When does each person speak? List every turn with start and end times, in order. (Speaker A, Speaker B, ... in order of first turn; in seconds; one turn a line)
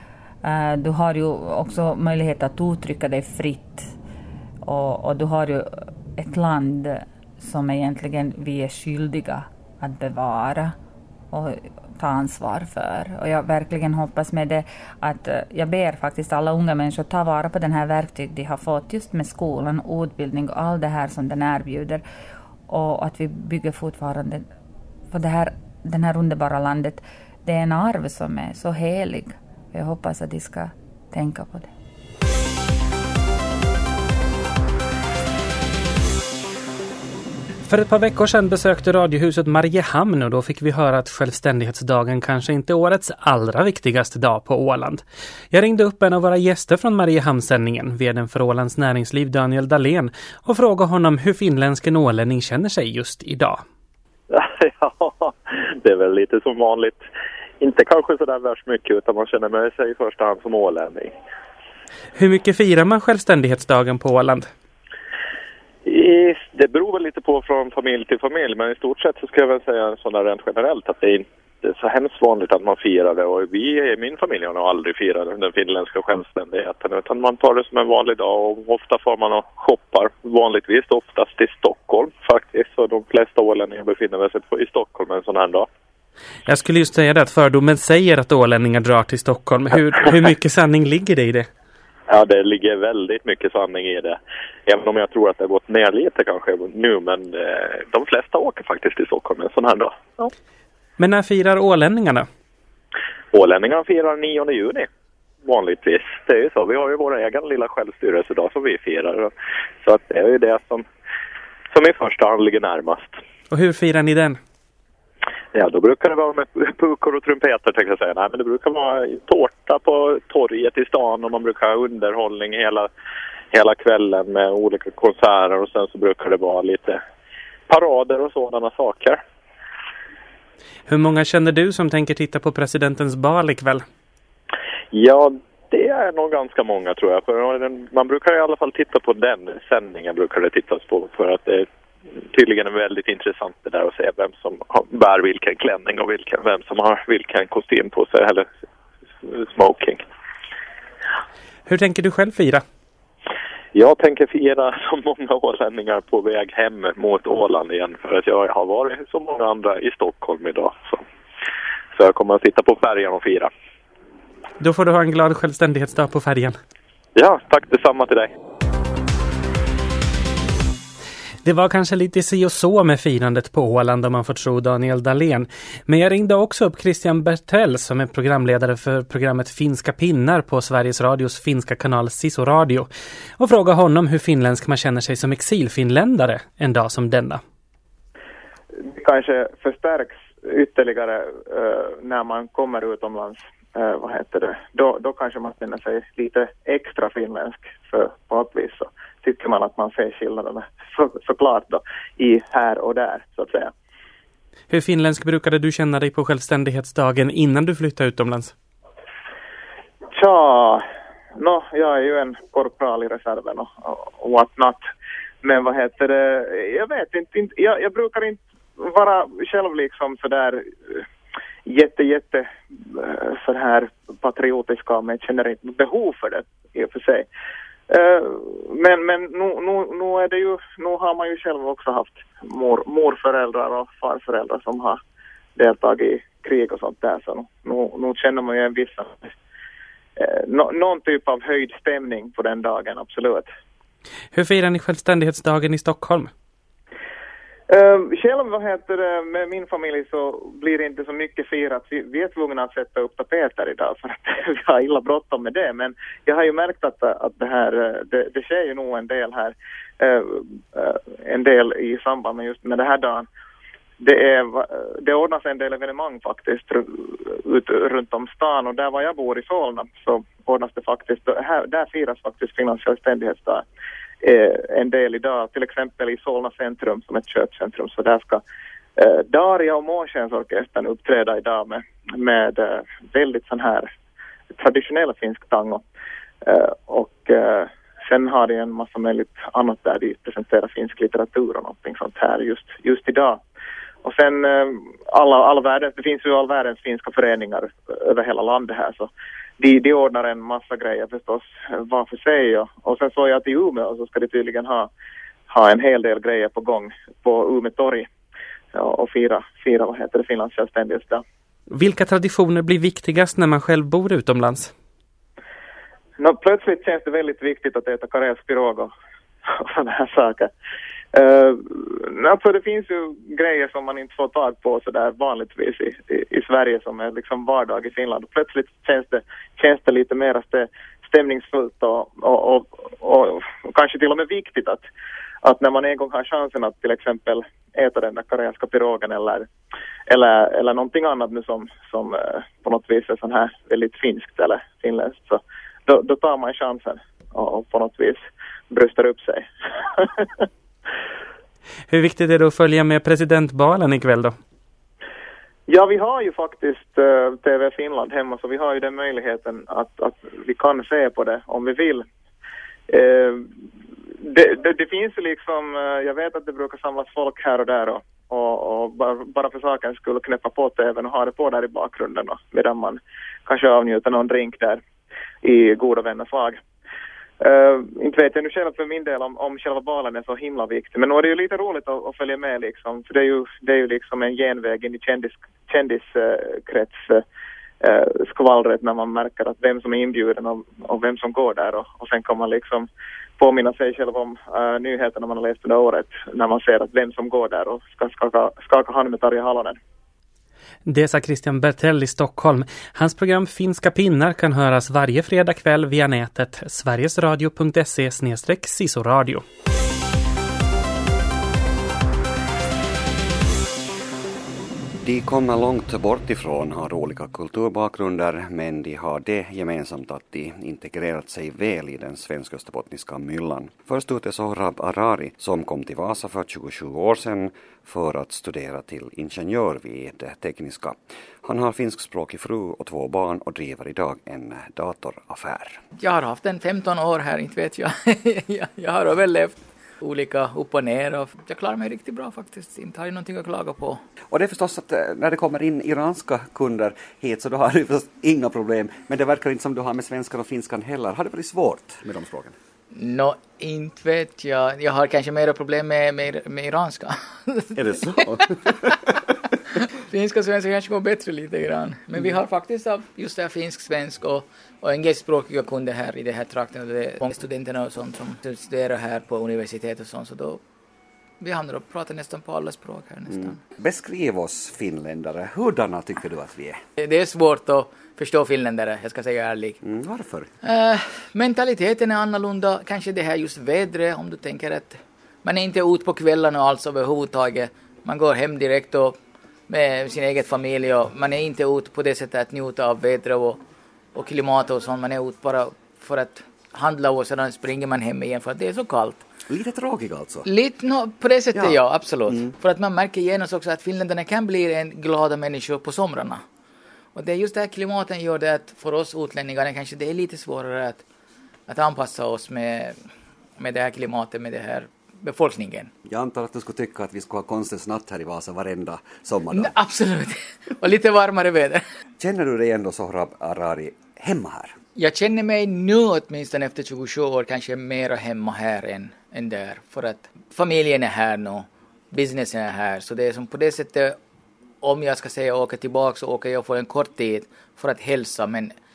Speaker A: 0.4-3.9
Speaker A: 4.6-10.8
Speaker A: 11.3-22.0
Speaker A: 22.7-24.5
Speaker A: 25.1-31.7
Speaker B: 37.7-53.6
Speaker C: 54.3-57.0
Speaker C: 57.6-61.2
Speaker B: 62.2-64.5
Speaker C: 65.8-85.7
Speaker B: 86.5-91.5
Speaker C: 92.1-100.3
Speaker B: 101.0-102.3
Speaker C: 103.3-104.9
Speaker C: 105.4-109.3
Speaker C: 109.8-110.9
Speaker C: 111.7-113.2
Speaker B: 113.5-114.4
Speaker C: 115.5-122.9
Speaker C: 123.5-127.0
Speaker C: 127.7-129.2
Speaker B: 130.9-133.8
Speaker C: 134.9-141.7
Speaker C: 142.3-148.5
Speaker C: 149.2-150.0
Speaker B: 151.7-152.6
Speaker C: 153.7-161.0
Speaker C: 161.9-163.5
Speaker B: 164.6-166.6
Speaker C: 167.2-168.3
Speaker B: 171.4-187.4
Speaker D: 188.9-203.7
Speaker B: 204.7-208.5
Speaker D: 210.1-210.8
Speaker D: 211.4-214.9
Speaker D: 215.4-221.0
Speaker D: 221.7-227.3
Speaker D: 227.9-235.0
Speaker D: 235.6-239.3
Speaker D: 240.2-243.5
Speaker B: 244.3-246.3
Speaker D: 247.7-263.3
Speaker D: 264.0-273.6
Speaker D: 274.2-278.4
Speaker D: 279.0-283.9
Speaker D: 284.5-285.8
Speaker D: 286.4-293.4
Speaker D: 294.0-304.9
Speaker D: 305.5-308.1
Speaker D: 308.7-311.2
Speaker B: 311.7-314.7
Speaker D: 316.2-318.9
Speaker D: 319.5-320.5
Speaker D: 321.1-334.9
Speaker D: 335.4-339.5
Speaker D: 340.1-350.4
Speaker B: 351.9-354.4
Speaker D: 355.7-362.1
Speaker D: 362.9-363.5
Speaker D: 364.3-374.8
Speaker D: 375.4-376.6
Speaker D: 377.4-387.2
Speaker D: 387.8-392.9
Speaker D: 393.4-399.8
Speaker B: 400.9-409.4
Speaker E: 415.0-435.8
Speaker F: 436.0-444.0
Speaker E: 444.3-452.6
Speaker F: 452.9-458.2
Speaker E: 457.8-458.6
Speaker F: 460.1-470.6
Speaker F: 471.4-473.6
Speaker E: 473.4-476.8
Speaker F: 477.0-479.8
Speaker E: 479.8-480.5
Speaker F: 480.6-489.2
Speaker F: 489.7-493.6
Speaker F: 494.1-499.2
Speaker E: 499.5-500.5
Speaker F: 500.4-506.4
Speaker E: 501.5-502.5
Speaker F: 507.1-511.0
Speaker F: 511.7-513.0
Speaker F: 513.6-515.9
Speaker E: 516.0-519.7
Speaker F: 519.5-521.8
Speaker E: 522.2-524.8
Speaker F: 525.0-534.2
Speaker F: 534.8-538.8